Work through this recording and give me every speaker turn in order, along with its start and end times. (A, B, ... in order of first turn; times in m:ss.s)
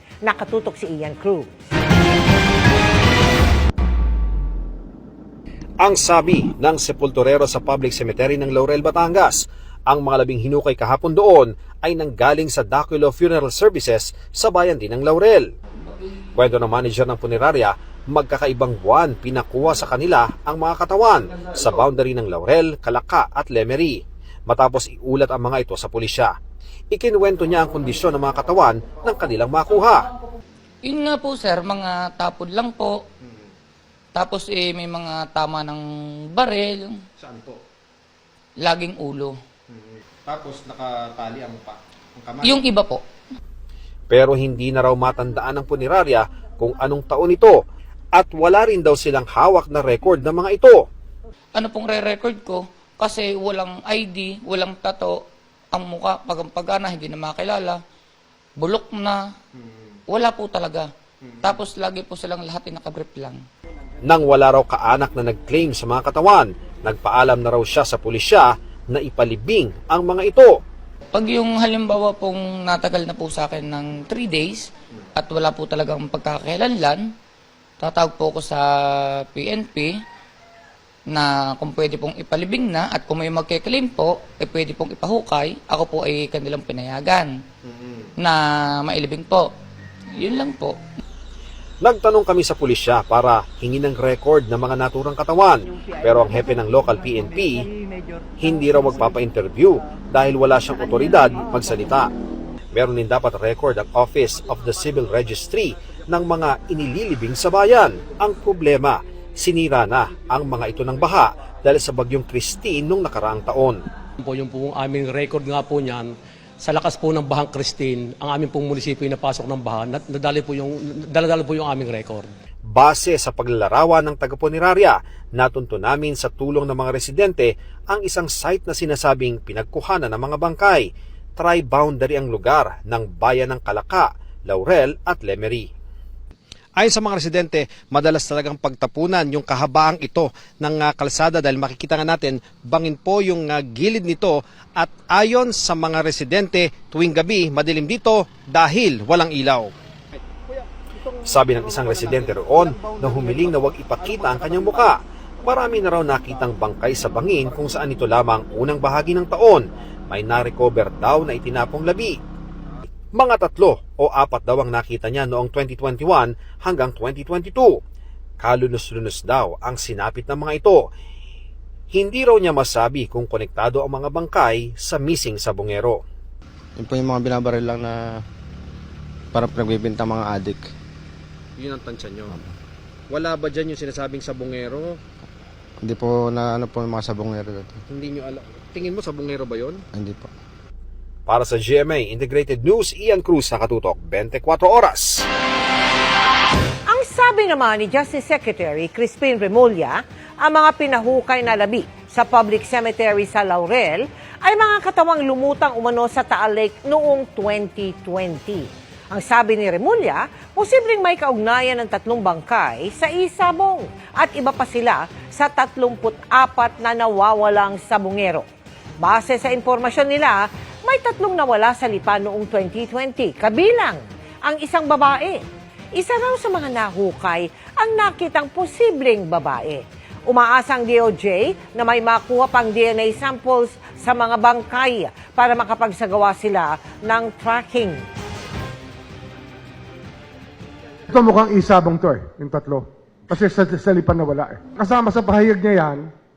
0:00.2-0:01.5 A
0:05.8-0:15.4 B
0:16.4-0:26.3 B
0:26.9-0:30.1 B
0:30.8-0:33.0 C
0:34.2-0:35.8 C
0:36.3-0:37.0 C
0:38.6-0:39.3 C
0:40.4-0:41.3 B
0:42.4-0:43.0 C
0:44.1-0:47.6 B
0:48.1-0:50.8 B
0:51.6-0:55.2 C
0:55.7-0:57.8 C
0:58.6-0:59.2 C
1:00.1-1:00.9 C
1:01.4-1:03.4 C
1:04.0-1:10.5 B
1:11.1-1:17.0 C
1:17.8-1:18.6 C
1:19.3-1:19.9 C
1:21.1-1:27.3 C
1:28.2-1:29.5 C
1:30.2-1:30.8 C
1:31.8-1:37.7 B
1:38.4-1:42.1 B
1:42.7-1:53.8 B
1:54.2-2:02.3 D
2:02.7-2:10.8 B
2:11.4-2:15.7 B
2:16.8-2:29.7 B
2:31.2-2:42.2 B
2:43.1-2:47.7 B
2:48.4-2:50.8 B
2:51.9-2:56.0 B
2:56.8-2:58.2 E
2:59.3-3:00.7 E
3:01.6-3:02.3 B
3:03.1-3:05.0 B
3:05.8-3:07.8 E
3:07.9-3:09.8 B
3:09.9-3:10.3 E
3:11.3-3:15.2 B
3:16.9-3:38.5 A
3:39.0-3:45.4 A
3:46.0-3:58.0 A
4:01.1-4:06.1 F